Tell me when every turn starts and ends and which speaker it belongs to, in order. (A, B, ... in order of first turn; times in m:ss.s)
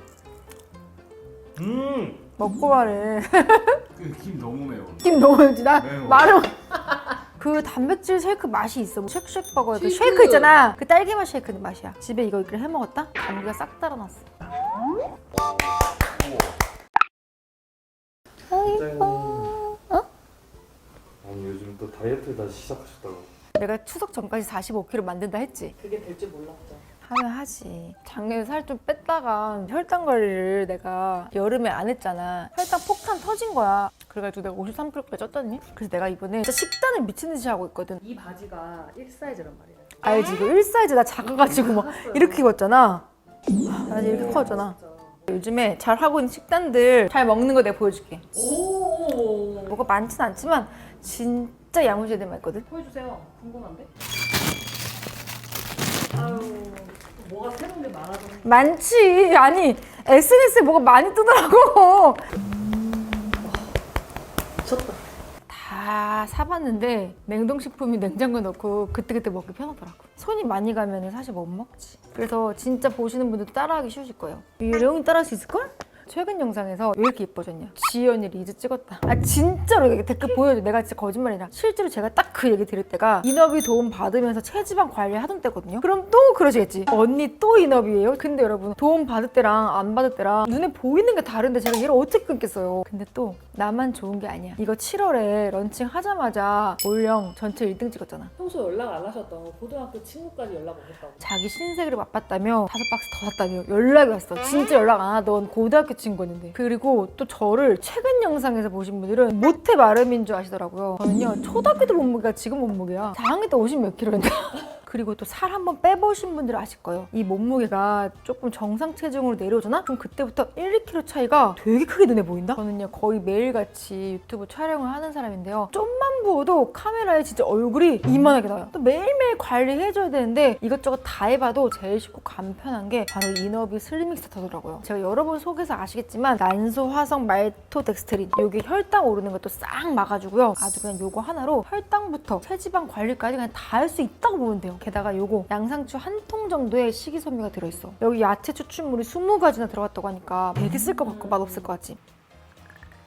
0:01.6-0:02.3 A
0:02.4-0:03.8 B
0:04.0-0:05.2 A
0:05.0-0:06.5 B
0:05.8-0:06.4 A
0:07.4-0:14.2 B
0:09.7-0:10.6 C
0:15.3-0:16.6 A
0:18.5-0:20.0 B
0:18.5-0:19.6 A
0:21.2-0:23.3 A
0:23.6-0:25.8 B
0:25.8-0:26.8 C
0:27.0-0:38.0 B
0:38.0-0:40.6 C
0:40.0-0:43.0 B
0:41.4-0:42.5 C
0:43.7-0:44.8 B
0:43.9-0:45.3 C
0:45.3-0:48.2 B
0:48.3-0:49.8 C
0:49.7-0:52.7 B
0:52.7-0:53.9 C
0:56.1-0:58.7 C
0:58.4-1:02.3 B
1:02.4-1:03.7 C
1:04.6-1:05.0 C
1:05.5-1:38.3 B
1:38.4-1:41.2 C
1:41.2-2:32.0 B
2:30.8-2:31.7 C